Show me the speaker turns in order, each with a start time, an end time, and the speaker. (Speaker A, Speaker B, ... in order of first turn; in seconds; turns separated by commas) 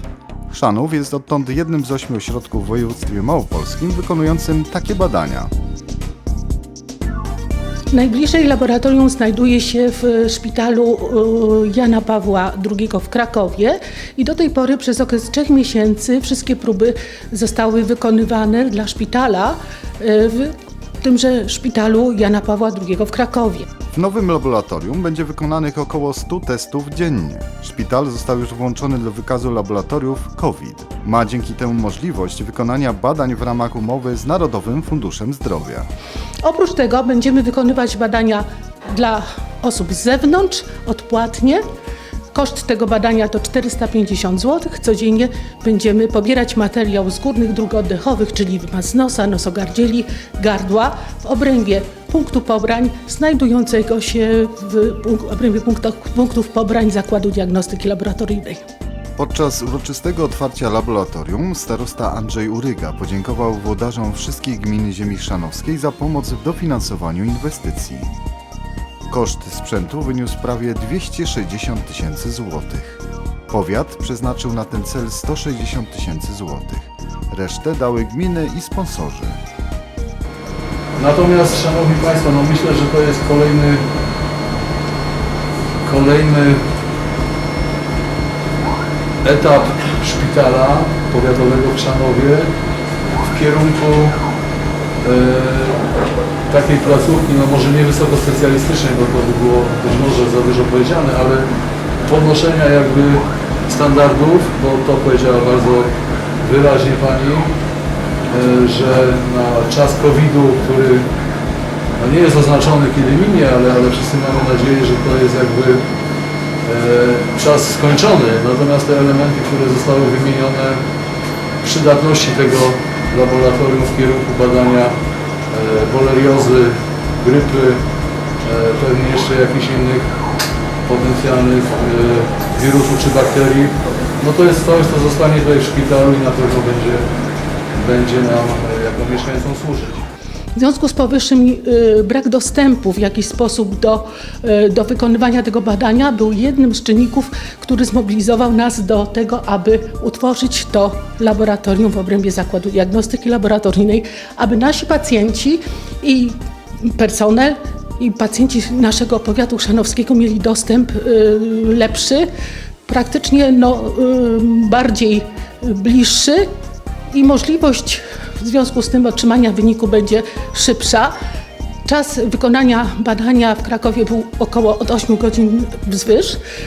Speaker A: 0.5-5.5, Speaker B: 7.9-23.7, Speaker A: 23.9-35.9, Speaker B: 36.4-41.6, Speaker B: 42.3-58.6, Speaker A: 59.2-68.1, Speaker A: 69.1-79.4, Speaker C: 81.0-83.8, Speaker C: 85.8-86.6, Speaker C: 89.2-92.5, Speaker C: 93.2-94.2, Speaker C: 95.0-95.8, Speaker C: 96.5-101.5, Speaker C: 102.0-105.9, Speaker C: 106.4-107.5, Speaker C: 108.3-111.1, Speaker C: 112.0-115.8, Speaker C: 116.6-120.8, Speaker C: 121.6-124.9, Speaker C: 125.5-127.8, Speaker C: 128.4-130.1, Speaker C: 130.8-137.1, Speaker C: 137.7-140.0, Speaker B: 140.5-162.3, Speaker B: 162.8-166.4, Speaker B: 167.1-171.1, Speaker B: 171.8-176.4